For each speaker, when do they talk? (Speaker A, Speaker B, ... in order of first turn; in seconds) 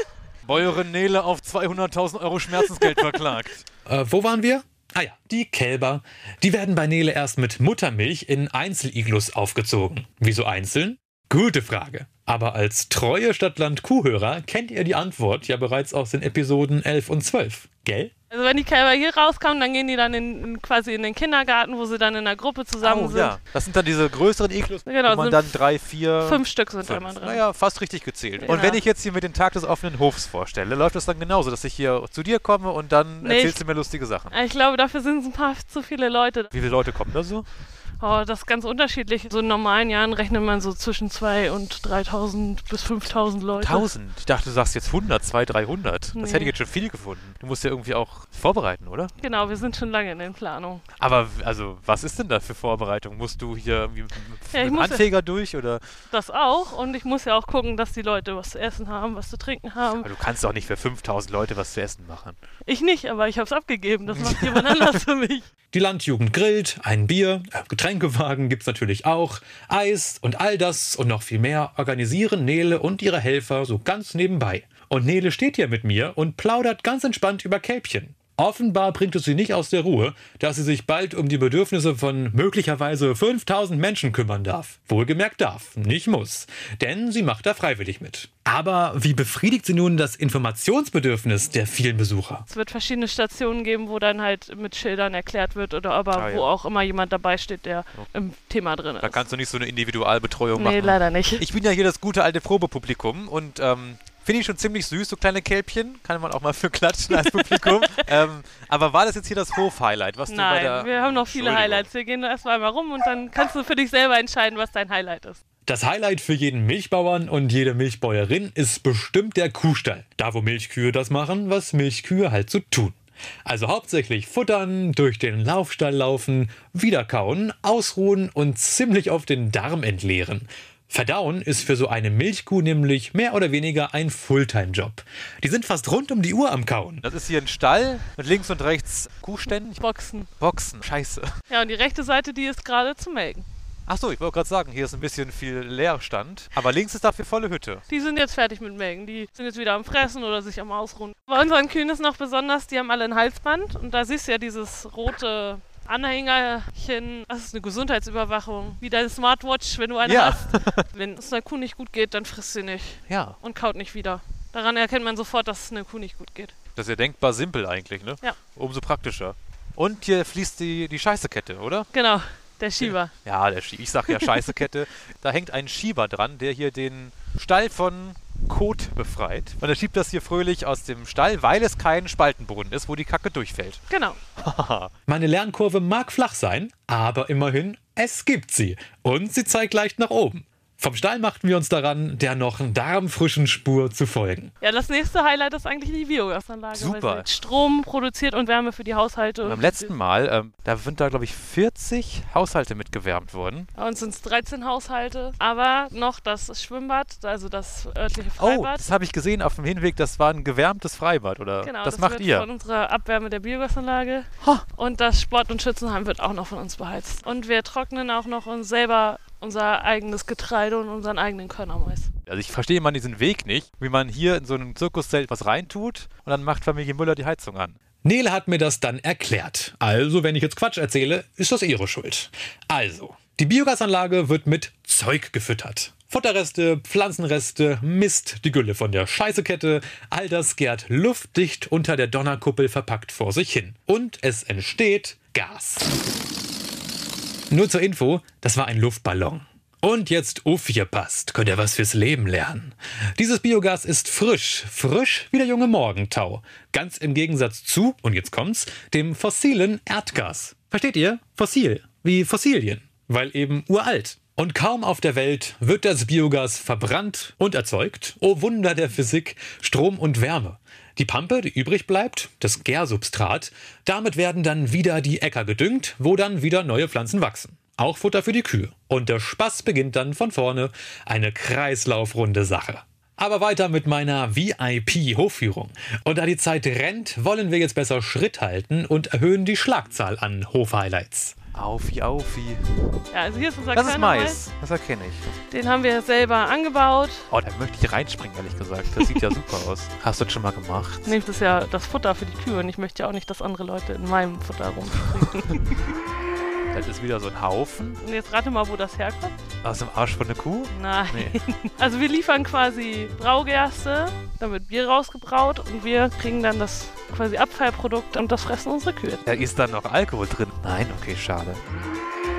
Speaker A: 0.4-3.6, 22.8-34.4, 36.5-37.5, 43.6-49.1, 51.0-55.8, 60.0-62.4, 64.1-65.0, 96.2-96.5, 99.0-111.9, 137.0-139.8, 140.4-141.3, 143.9-147.8, 160.0-160.9, 163.1-163.4, 166.7-171.9, 172.8-183.8, 184.4-184.9, 196.7-197.2, 199.4-203.7, 208.4-212.5, 222.3-227.8, 291.5-292.6, 293.7-295.3, 297.3-301.2, 306.7-308.0, 309.6-311.4, 319.2-321.6
Speaker B: 3.9-18.1, 65.7-92.5, 115.7-137.0, 185.1-194.5, 228.0-245.9, 247.5-291.4
Speaker C: 18.3-23.4, 24.8-25.6, 26.2-27.4, 28.4-28.8, 33.2-33.6, 34.3-36.5, 38.0-43.9, 46.1-46.5, 49.2-50.8, 54.5-55.1, 56.1-60.1, 62.6-65.4, 92.5-99.2, 100.5-101.5, 107.1-108.0, 110.3-115.4, 139.8-140.3, 141.5-143.5, 147.9-166.5, 171.9-173.1, 174.1-174.6, 183.9-184.2, 194.6-199.7, 203.7-208.8, 211.6-222.1, 293.1-294.4, 295.5-297.3, 301.0-305.8, 308.0-309.4, 310.7-319.2